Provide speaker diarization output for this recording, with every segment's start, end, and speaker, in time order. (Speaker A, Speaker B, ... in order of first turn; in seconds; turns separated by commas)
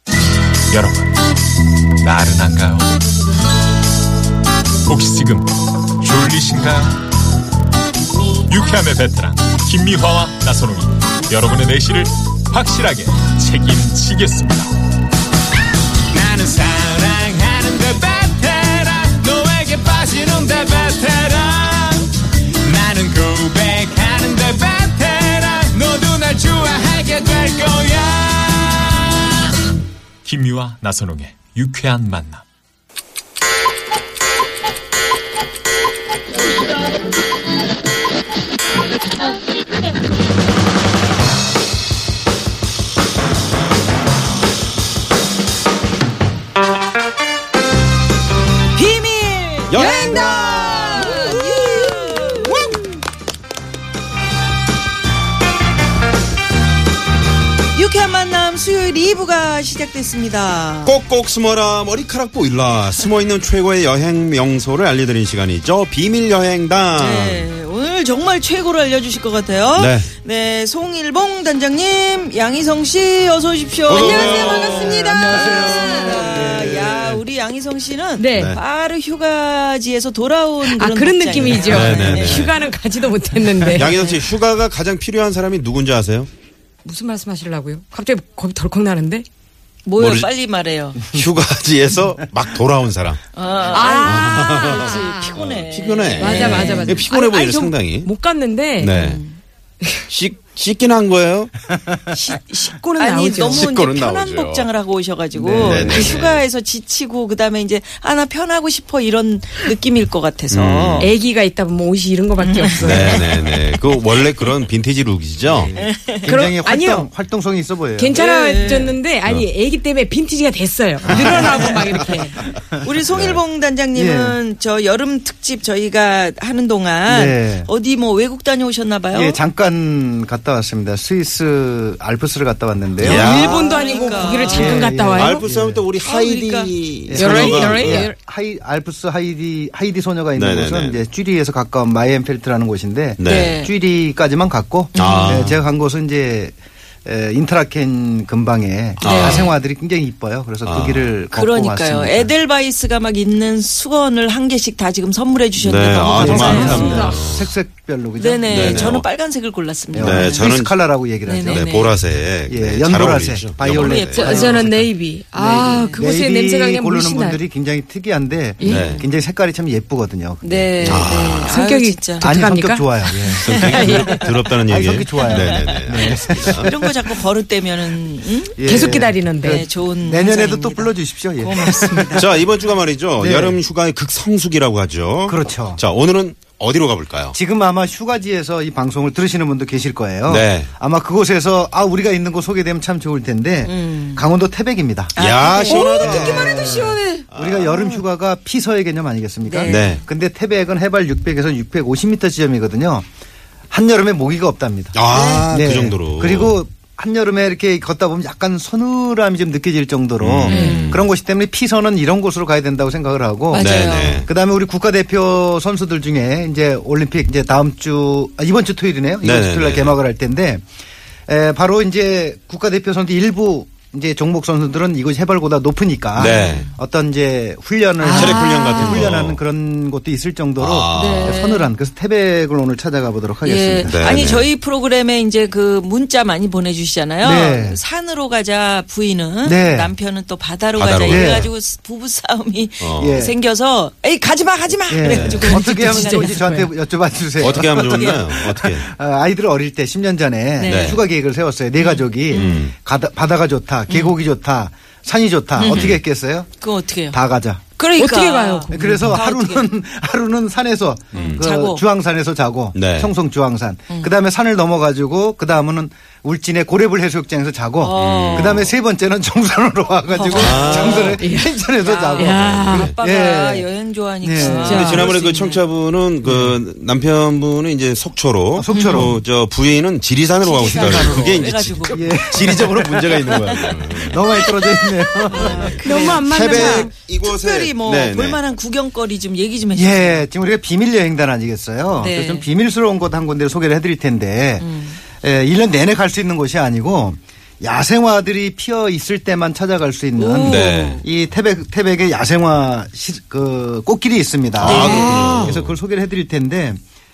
Speaker A: 0.7-1.1, Speaker A: 2.0-2.9, Speaker A: 4.9-5.5, Speaker A: 6.0-7.0, Speaker A: 8.5-14.7, Speaker B: 16.1-22.1, Speaker B: 22.6-28.9, Speaker A: 30.2-32.4, Speaker C: 48.7-52.8, Speaker D: 49.7-51.3, Speaker E: 49.8-50.4, Speaker E: 51.0-51.5, Speaker C: 57.8-61.0, Speaker D: 60.9-67.5, Speaker C: 67.0-82.6, Speaker D: 69.8-70.1, Speaker D: 73.9-76.6, Speaker F: 74.0-77.2, Speaker E: 74.8-75.1, Speaker E: 75.8-76.2, Speaker E: 78.2-78.6, Speaker D: 78.3-78.6, Speaker E: 80.6-84.0, Speaker D: 81.6-82.5, Speaker C: 83.6-84.3, Speaker D: 83.6-86.3, Speaker E: 86.8-89.3, Speaker C: 89.9-91.1, Speaker D: 90.0-90.3, Speaker D: 91.1-93.2, Speaker C: 93.3-97.0, Speaker E: 93.7-95.4, Speaker D: 94.0-95.1, Speaker D: 95.7-98.1, Speaker E: 96.2-99.0, Speaker D: 98.8-99.2, Speaker C: 98.9-99.4, Speaker D: 100.1-101.5, Speaker E: 102.1-103.6, Speaker C: 103.0-111.1, Speaker D: 103.4-104.7, Speaker F: 105.3-106.1, Speaker D: 105.6-106.4, Speaker D: 110.5-111.1, Speaker E: 111.0-113.3, Speaker C: 112.4-114.2, Speaker D: 112.8-115.7, Speaker F: 115.5-118.2, Speaker C: 115.7-116.5, Speaker E: 116.3-117.1, Speaker E: 118.0-122.4, Speaker C: 118.1-119.0, Speaker F: 121.1-121.6, Speaker D: 121.1-121.4, Speaker C: 121.1-122.3, Speaker C: 122.8-129.4, Speaker D: 123.1-123.4, Speaker F: 124.0-124.4, Speaker F: 127.1-127.7, Speaker F: 129.1-133.6, Speaker D: 133.0-133.8, Speaker E: 133.0-135.4, Speaker C: 133.0-135.0, Speaker F: 134.5-135.8, Speaker D: 135.1-138.1, Speaker C: 136.0-136.8, Speaker F: 137.1-152.3, Speaker E: 137.1-138.2, Speaker D: 140.3-141.0, Speaker D: 143.2-143.6, Speaker C: 143.2-143.7, Speaker C: 144.9-145.5, Speaker D: 145.0-145.6, Speaker D: 149.0-149.5, Speaker C: 149.0-149.6, Speaker D: 150.6-151.1, Speaker C: 151.3-157.1, Speaker D: 155.6-157.5, Speaker F: 156.1-159.0, Speaker E: 156.2-157.2, Speaker C: 158.2-160.5, Speaker D: 158.5-159.1, Speaker F: 159.9-161.7, Speaker D: 160.0-160.7, Speaker C: 161.2-162.1, Speaker D: 161.5-164.4, Speaker F: 162.5-171.2, Speaker C: 163.7-164.6, Speaker E: 164.1-167.4, Speaker C: 165.4-166.0, Speaker E: 168.6-169.0, Speaker C: 168.6-169.1, Speaker D: 168.6-169.0, Speaker C: 170.4-172.3, Speaker D: 170.8-171.6, Speaker E: 171.4-174.5, Speaker F: 172.2-174.0, Speaker D: 173.4-176.7, Speaker C: 173.5-174.2, Speaker F: 174.7-176.8, Speaker C: 175.2-182.5, Speaker F: 178.6-182.3, Speaker E: 178.6-179.7, Speaker D: 182.2-187.4, Speaker F: 183.2-183.6, Speaker F: 185.3-185.8, Speaker F: 187.3-195.1, Speaker D: 190.3-190.7, Speaker C: 193.6-194.3, Speaker C: 195.1-196.1, Speaker D: 195.2-197.9, Speaker E: 195.6-197.3, Speaker F: 195.9-203.1, Speaker C: 199.4-200.0, Speaker D: 199.7-200.0, Speaker F: 203.7-220.6, Speaker D: 204.9-206.6, Speaker C: 205.1-205.5, Speaker D: 210.2-211.1, Speaker C: 210.5-211.0, Speaker E: 210.5-210.8, Speaker C: 213.5-214.3, Speaker D: 213.6-214.3, Speaker D: 219.2-220.0, Speaker F: 221.3-234.0, Speaker D: 226.2-226.7, Speaker C: 226.3-226.7, Speaker E: 228.0-229.1, Speaker D: 228.1-229.4, Speaker D: 230.6-231.4, Speaker C: 230.9-231.7, Speaker C: 233.4-246.5, Speaker D: 233.8-234.5, Speaker F: 237.2-237.8, Speaker F: 239.4-239.9, Speaker D: 240.8-241.5, Speaker F: 241.1-241.5, Speaker D: 242.8-243.2, Speaker F: 243.0-243.3, Speaker F: 244.9-256.5, Speaker D: 245.0-245.4, Speaker E: 245.4-246.7, Speaker D: 247.4-248.9, Speaker C: 247.5-248.2, Speaker C: 250.6-251.0, Speaker D: 250.6-251.0, Speaker C: 251.8-252.7, Speaker D: 252.3-252.7, Speaker C: 253.9-254.2, Speaker C: 255.6-256.0, Speaker D: 255.6-256.0, Speaker C: 256.6-257.2, Speaker F: 257.1-257.6, Speaker C: 257.8-259.7, Speaker E: 258.0-259.2, Speaker F: 258.7-273.7, Speaker C: 261.1-261.8, Speaker D: 261.1-261.5, Speaker D: 262.7-263.1, Speaker C: 267.8-268.6, Speaker D: 267.9-268.7, Speaker C: 270.1-271.2, Speaker D: 270.3-271.2, Speaker E: 271.2-271.6, Speaker C: 271.8-275.6, Speaker E: 272.2-272.9, Speaker D: 272.2-272.9, Speaker F: 274.2-274.9, Speaker E: 274.4-275.2, Speaker D: 274.7-284.4, Speaker F: 276.2-276.6, Speaker F: 278.6-279.2, Speaker C: 278.7-279.2, Speaker C: 280.4-290.3, Speaker F: 280.6-285.9, Speaker D: 285.3-288.4, Speaker E: 285.8-286.9, Speaker F: 289.7-306.8, Speaker C: 291.9-292.5, Speaker C: 294.6-295.0, Speaker C: 300.2-301.0, Speaker D: 300.4-301.0, Speaker D: 304.6-305.8, Speaker C: 304.6-305.2, Speaker E: 304.7-305.5